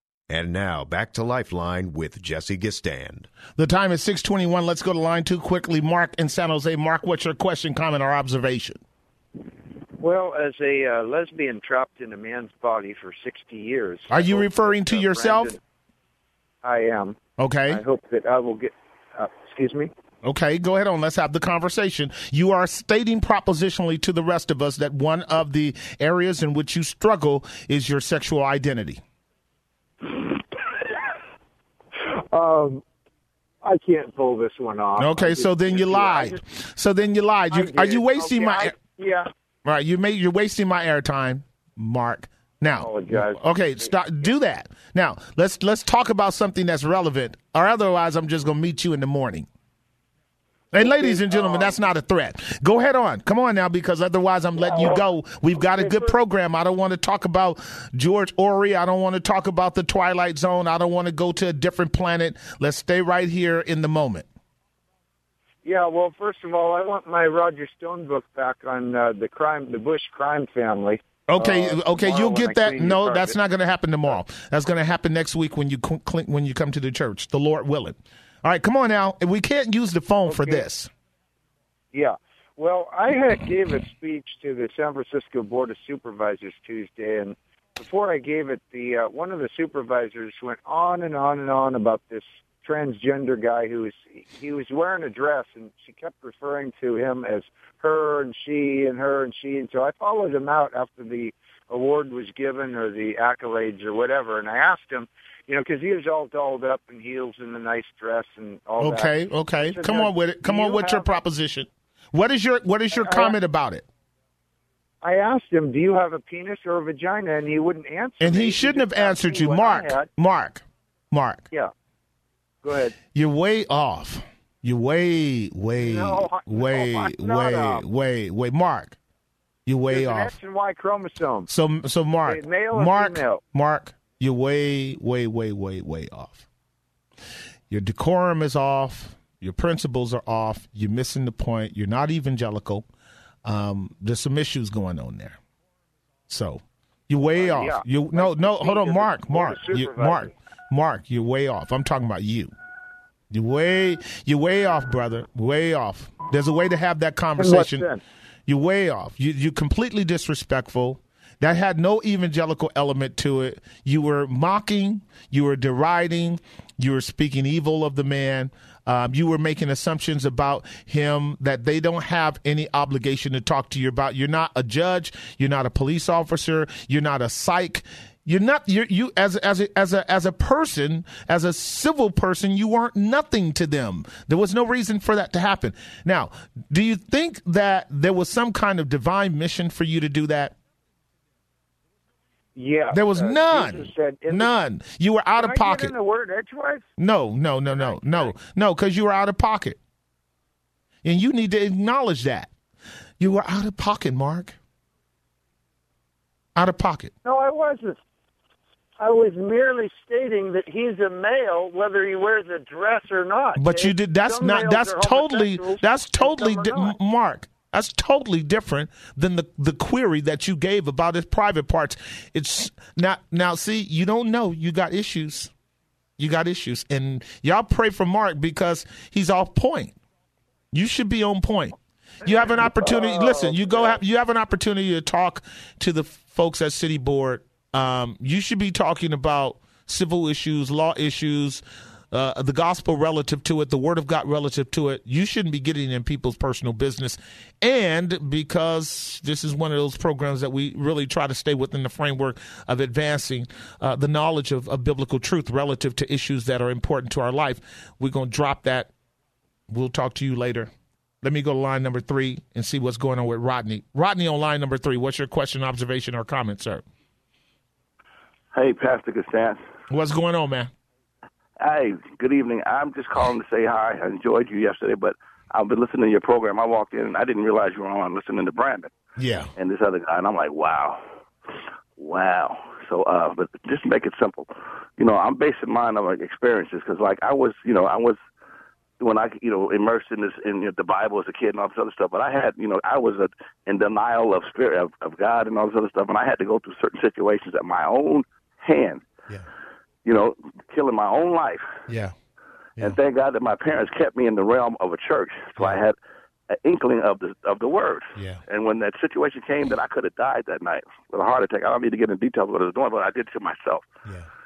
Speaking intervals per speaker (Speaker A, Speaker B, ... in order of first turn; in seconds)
Speaker A: 0.3-3.3
Speaker B: 3.5-8.8, 14.1-15.6, 17.4-17.8, 20.2-29.0, 35.0-38.7, 39.6-49.5, 50.7-64.3, 71.3-80.9, 108.8-113.9, 118.2-121.4, 123.1-129.0, 129.7-130.3, 131.5-136.5, 137.7-142.9, 143.4-145.4, 146.3-152.5, 153.3-157.9, 158.5-190.6, 192.9-195.9, 197.0-199.8, 201.0-202.5, 203.2-204.6, 206.6-207.1, 213.6-225.5, 226.2-229.9, 230.7-258.9, 259.7-260.7, 261.2-266.8, 269.9-270.7, 279.2-279.5, 301.9-302.1, 308.2-308.4
Speaker C: 10.0-15.6, 16.6-17.2, 17.7-19.9, 30.0-31.1, 32.1-32.8, 33.6-36.4, 37.5-39.3, 42.8-43.9, 50.7-51.8, 54.5-55.0, 55.6-56.1, 65.7-73.3, 80.3-80.6, 81.9-109.1, 109.7-111.1, 112.9-113.3, 115.0-120.1, 122.6-123.0, 125.8-127.8, 129.9-131.5, 132.2-133.4, 147.4-150.3, 157.4-158.0, 192.6-194.5, 195.4-196.9, 197.7-198.3, 207.2-208.0, 209.0-216.9, 232.2-234.0
Speaker D: 268.5-269.6, 271.6-278.9, 279.6-288.2, 289.0-299.1, 300.1-301.8, 302.8-305.9, 306.6-313.9